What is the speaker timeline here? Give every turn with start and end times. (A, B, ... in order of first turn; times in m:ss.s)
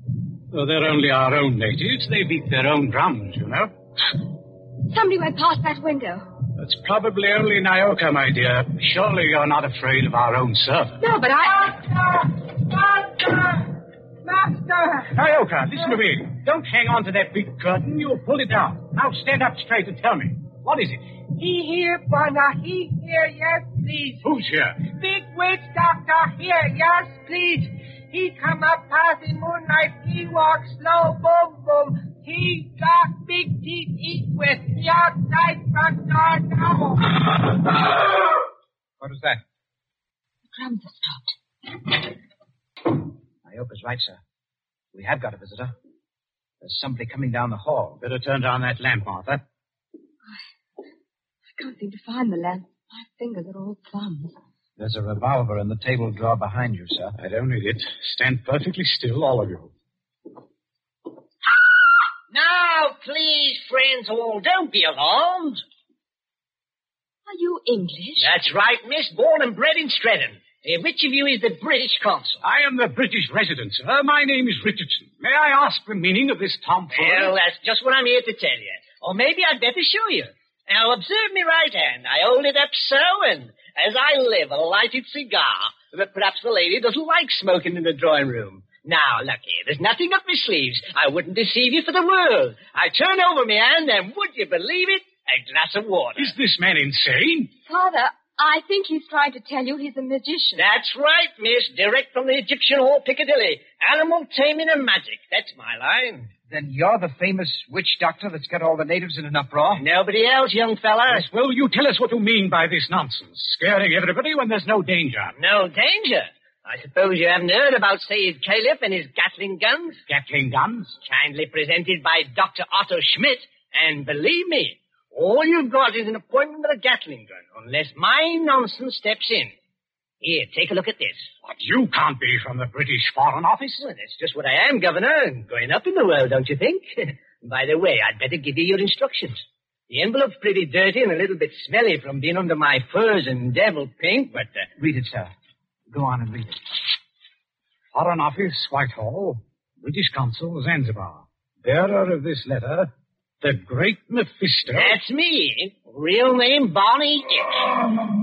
0:00.5-0:03.7 A
0:04.9-0:06.2 B
0:06.6-0:11.0 A
0:11.0-0:11.6 B
0:11.5-0:15.1 C
0:15.1-0:21.0 A
0:21.4-0:24.2 C
0:24.2-0:24.8 A
0:24.8-0:37.2 C
0:39.0-0:39.4 D
0:40.5-0:41.3 B
0:43.4-0:44.2 D
0:44.9-0:45.7 D
0:46.6-0:48.0 D
0:48.0-0:49.4 A
0:51.6-0:54.3 B
0:54.8-0:57.1 D
0:57.2-0:59.7 A
1:02.3-1:05.6 E
1:07.3-1:08.3 B
1:08.2-1:12.4 E
1:12.4-1:17.3 A
1:16.9-1:36.3 E
1:36.2-1:37.5 A
1:37.6-1:40.6 B
1:40.6-1:46.3 E
1:46.5-1:49.8 D
1:49.8-1:51.2 E
1:51.1-1:55.3 A
1:55.4-2:00.0 E
2:00.1-2:01.0 A
2:01.0-2:09.5 E
2:10.2-2:11.3 E
2:11.4-2:13.8 A
2:13.8-2:24.7 E
2:24.8-2:25.3 D
2:25.9-2:26.6 D
2:27.9-2:32.9 A
2:33.4-2:35.0 A
2:34.7-2:37.8 E